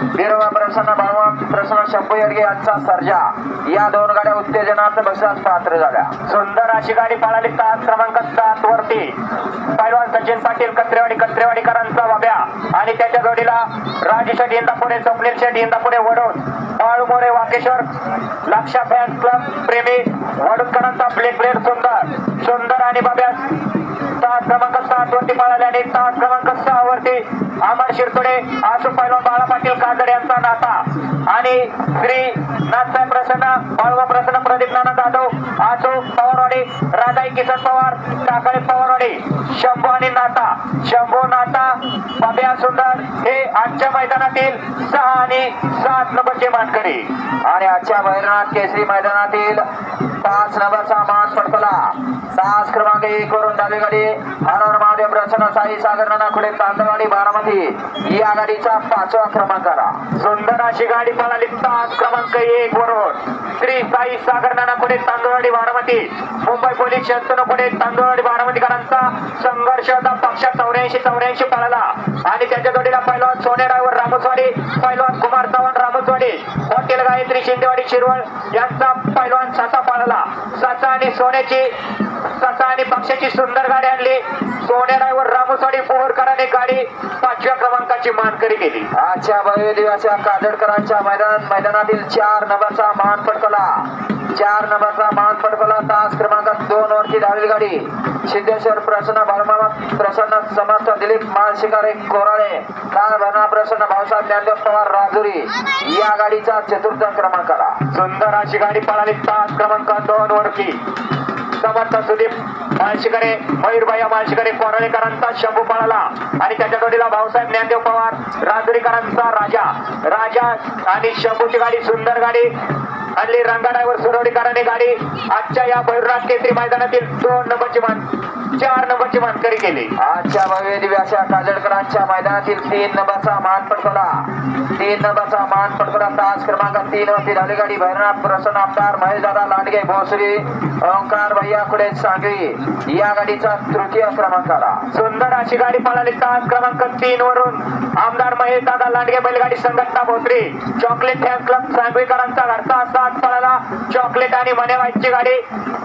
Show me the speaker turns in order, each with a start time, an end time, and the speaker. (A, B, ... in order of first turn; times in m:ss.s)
0:00.1-0:06.1 A
0:06.3-0:09.1 B
0:09.8-0:17.9 B
0:18.5-0:23.5 B
0:24.2-0:47.0 B
0:47.4-0:49.6 A
0:50.2-1:00.0 A
1:00.2-1:28.9 B
1:28.9-1:47.8 A
1:47.9-1:50.8 B
1:51.6-2:02.5 B
2:03.2-2:09.9 B
2:10.0-2:24.8 A
2:24.9-2:35.4 B